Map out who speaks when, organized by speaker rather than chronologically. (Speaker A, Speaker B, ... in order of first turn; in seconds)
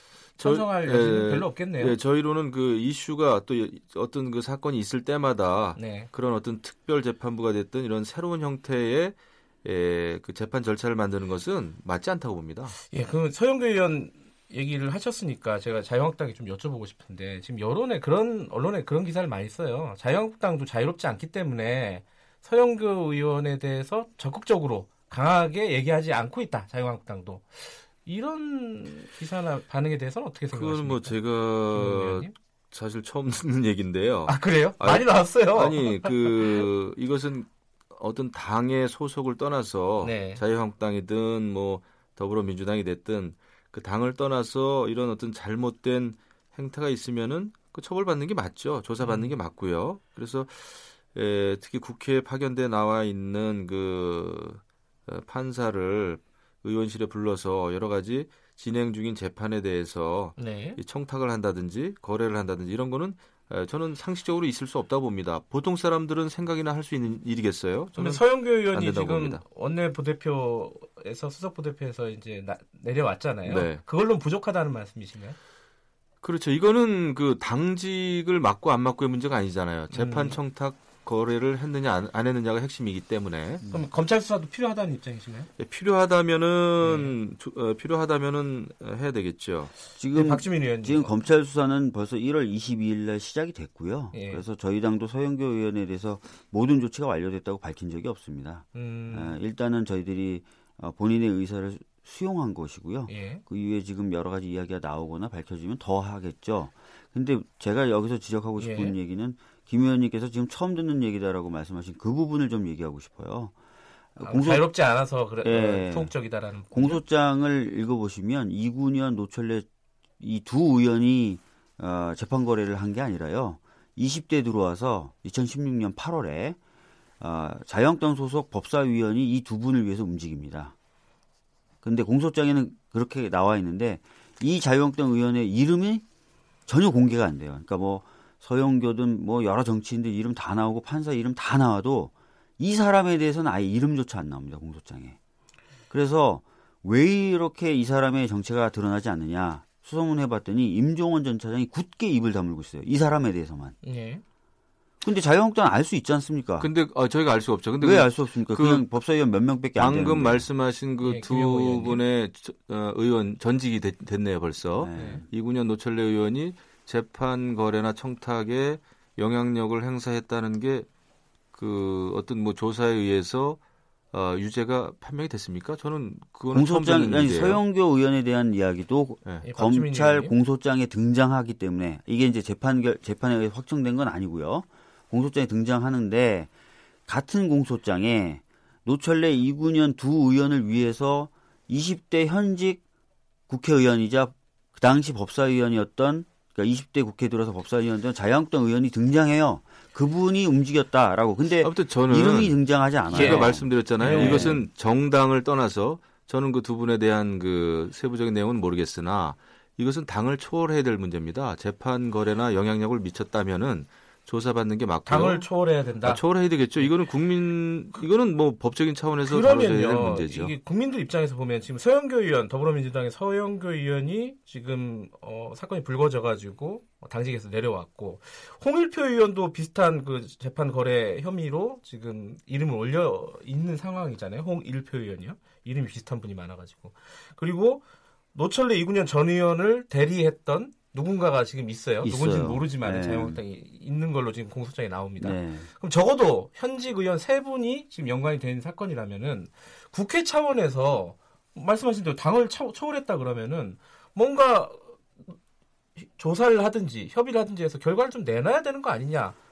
Speaker A: 0.4-2.0, 5.8-6.1, 12.9-31.1, 31.7-32.3, 34.3-36.6, 40.0-40.4, 49.0-49.3, 60.4-60.8, 67.9-75.4, 79.9-80.4, 83.7-85.5, 86.8-87.1, 90.1-91.1, 94.1-94.4, 98.7-99.3, 103.1-103.4, 108.6-108.9, 114.2-117.0, 153.8-154.2, 161.0-162.0, 165.0-165.2, 179.4-180.3, 203.1-204.6, 215.1-216.2, 219.2-237.8, 238.3-255.3, 256.0-259.4
Speaker B: 0.4-12.8, 30.5-69.4, 73.5-73.8, 76.2-83.6, 85.6-89.7, 156.6-158.8, 159.8-170.9, 171.5-173.6, 174.1-177.6, 201.6-215.5, 216.0-220.5
Speaker C: 90.0-113.5, 114.2-114.6, 115.4-116.1, 116.7-119.7, 120.2-126.6, 127.2-130.7, 131.8-136.0, 136.7-145.2, 145.9-153.8, 155.0-156.7, 157.8-160.4, 164.8-165.2, 176.5-186.5, 187.1-192.8, 193.5-204.6, 242.0-243.4, 245.2-245.7